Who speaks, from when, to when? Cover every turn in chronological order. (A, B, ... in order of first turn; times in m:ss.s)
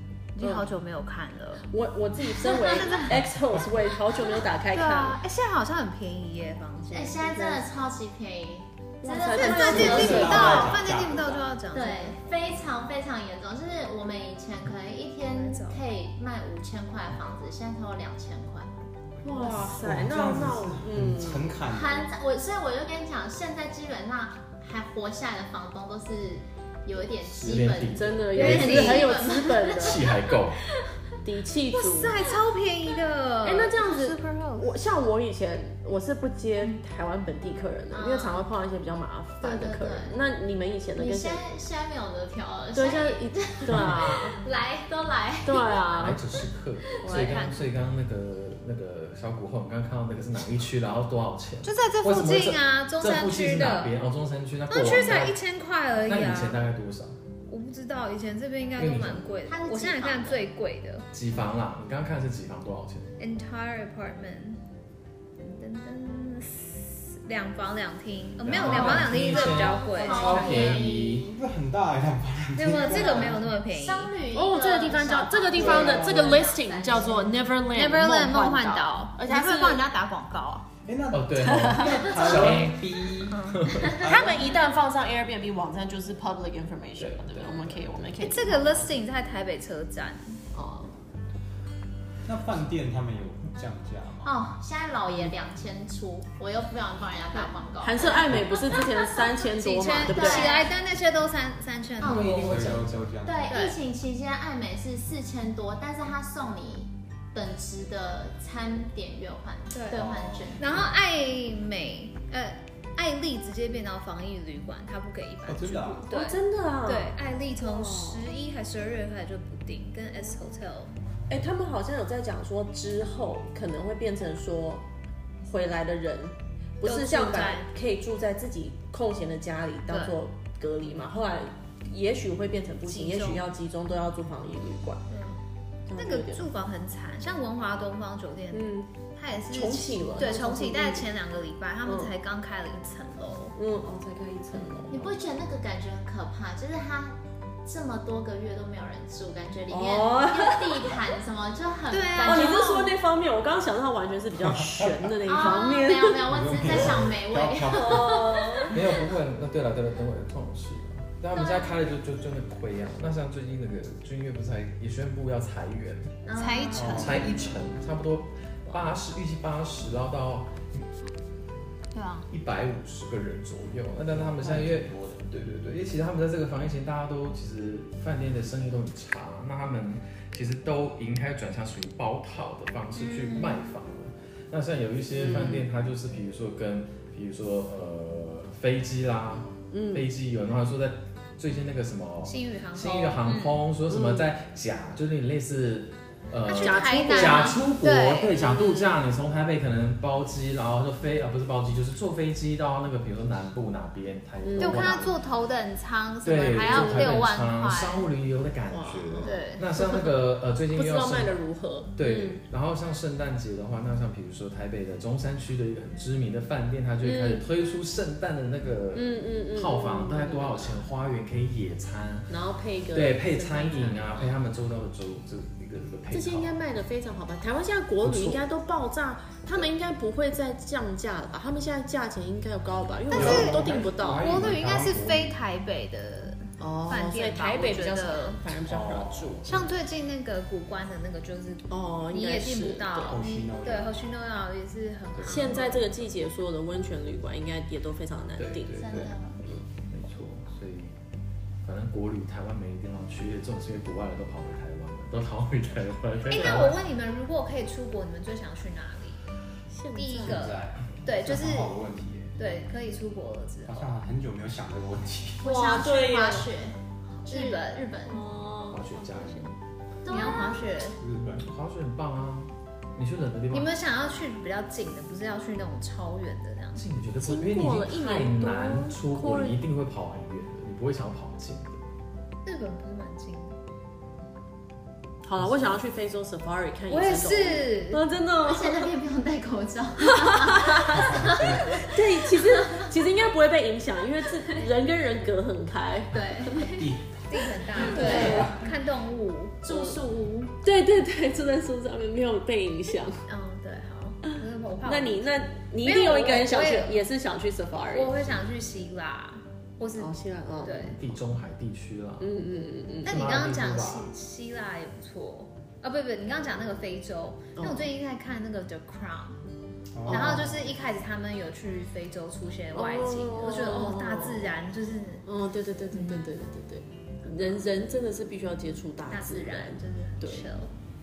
0:00.4-0:01.7 A
0:00.4-0:00.7 B
0:01.7-0:05.2 B
0:02.3-0:03.4 A
0:04.7-0:07.4 A
0:06.9-0:10.7 C
0:07.3-0:07.7 B
0:09.0-0:10.7 B
0:09.3-0:12.2 A
0:09.6-0:11.6 D
0:11.7-0:18.7 C
0:15.3-0:15.8 A
0:19.2-0:21.6 B
0:19.2-0:22.1 D
0:21.6-0:30.0 C
0:27.4-0:29.0 E
0:27.9-0:30.0 B
0:28.4-0:29.1 A
0:29.7-0:30.6 E
0:31.2-0:32.2 B
0:31.7-0:34.7 A
0:33.4-0:41.4 B
0:37.9-0:38.4 C
0:39.4-0:40.2 C
0:40.9-0:45.6 C
0:42.7-0:44.3 B
0:44.4-0:44.8 A
0:45.4-0:46.2 B
0:45.9-0:55.4 E
0:46.9-0:47.2 C
0:47.0-0:47.6 A
0:51.6-0:53.9 A
0:54.7-0:56.6 A
0:56.0-0:57.2 E
0:57.5-1:01.0 A
0:58.8-0:59.3 E
0:59.5-1:00.5 C
1:01.1-1:03.1 E
1:03.2-1:04.6 A
1:05.4-1:10.9 A
1:08.4-1:11.3 E
1:08.6-1:10.5 B
1:09.6-1:11.2 C
1:11.2-1:13.6 D
1:12.6-1:14.2 A
1:12.7-1:17.4 C
1:14.3-1:19.8 B
1:15.6-1:16.3 E
1:17.7-1:20.7 A
1:20.8-1:23.5 D
1:21.1-1:22.8 E
1:21.4-1:22.6 B
1:23.3-1:24.0 A
1:23.5-1:24.0 E
1:24.0-1:28.9 B
1:27.0-1:27.9 E
1:28.2-1:30.4 A
1:30.5-1:30.9 B
1:32.2-1:34.4 D
1:34.2-1:38.2 C
1:35.1-1:35.3 B
1:37.8-1:40.7 B
1:39.5-1:42.8 A
1:40.0-1:40.6 C
1:42.0-1:42.7 C
1:42.0-1:43.5 D
1:43.2-1:50.7 C
1:43.5-1:43.8 A
1:49.7-1:50.0 A
1:49.9-1:50.9 D
1:50.6-2:01.0 A
1:55.4-1:56.1 D
1:56.1-1:58.3 B
2:01.3-2:04.8 B
2:05.4-2:15.0 B
2:06.8-2:07.7 A
2:09.9-2:10.1 A
2:12.8-2:13.4 A
2:15.1-2:15.4 A
2:15.9-2:16.5 B
2:15.9-2:23.6 A
2:18.5-2:18.9 B
2:19.5-2:21.1 B
2:21.8-2:22.1 B
2:23.6-2:25.1 B
2:24.9-2:32.9 C
2:29.7-2:31.0 B
2:31.9-2:32.6 A
2:32.2-2:36.2 B
2:34.6-2:35.1 D
2:35.2-2:38.2 C
2:36.3-2:38.2 D
2:37.7-2:38.7 B
2:38.7-2:46.2 E
2:41.3-2:41.7 C
2:46.2-2:47.4 C
2:46.3-2:46.8 A
2:46.7-2:50.9 E
2:46.8-2:47.5 D
2:51.9-2:52.2 A
2:52.3-3:25.2 E
2:54.1-2:55.3 D
3:03.0-3:03.6 A
3:05.2-3:05.7 B
3:09.7-3:10.1 B
3:12.2-3:13.6 A
3:13.9-3:14.3 B
3:16.5-3:18.9 A
3:16.6-3:17.6 B
3:24.4-3:25.0 B
3:24.6-3:28.1 A
3:26.2-3:31.4 E
3:26.6-3:27.2 B
3:28.7-3:30.1 B
3:29.2-3:29.6 A
3:30.7-3:32.4 B
3:31.9-3:42.3 E
3:37.0-3:37.4 B
3:38.9-3:40.8 B
3:42.3-3:44.3 B
3:42.9-3:46.6 E
3:46.1-3:54.3 B
3:48.0-3:48.4 E
3:53.1-3:58.5 A
3:53.4-3:55.4 D
3:56.6-3:59.6 B
3:58.6-3:59.5 D
3:59.4-4:05.8 A
4:01.7-4:03.2 B
4:03.1-4:04.0 D
4:05.1-4:05.7 E
4:05.2-4:08.9 B
4:08.4-4:09.2 E
4:08.8-4:09.4 C
4:09.9-4:11.0 E
4:11.6-4:16.8 E
4:16.2-4:19.2 A
4:19.7-4:20.4 B
4:19.9-4:21.8 A
4:20.2-4:22.4 D
4:22.4-4:23.9 A
4:23.6-4:25.5 D
4:25.4-4:28.2 C
4:25.4-4:26.5 B
4:27.3-4:27.9 A
4:28.1-4:29.5 B
4:28.7-4:29.5 E
4:30.0-4:30.7 C
4:30.1-4:31.0 A
4:30.9-4:31.5 D
4:31.2-4:33.7 E
4:33.5-4:36.8 A
4:36.7-4:41.8 E
4:37.2-4:39.6 B
4:42.4-4:43.6 A
4:45.2-4:48.9 B
4:45.4-4:45.8 E
4:46.9-4:48.0 A
4:48.4-4:52.8 C
4:50.7-4:56.7 B
4:51.0-4:51.6 D
4:56.1-4:56.9 C
4:56.7-4:58.6 D
4:57.3-4:59.6 A
4:57.8-4:58.6 B
4:57.9-4:58.4 C
4:59.6-5:00.5 C
4:59.7-5:00.0 B
5:00.6-5:03.2 B
5:03.3-5:07.0 A
5:04.8-5:08.3 B
5:07.8-5:11.0 A
5:10.0-5:11.1 B
5:10.9-5:12.4 E
5:12.2-5:13.2 B
5:13.0-5:14.1 E
5:13.0-5:19.4 A
5:17.6-5:17.9 B
5:19.9-5:20.7 D
5:20.1-5:25.2 A
5:20.1-5:20.5 B
5:22.7-5:24.6 B
5:25.2-5:30.5 B
5:25.9-5:26.2 A
5:29.1-5:30.7 A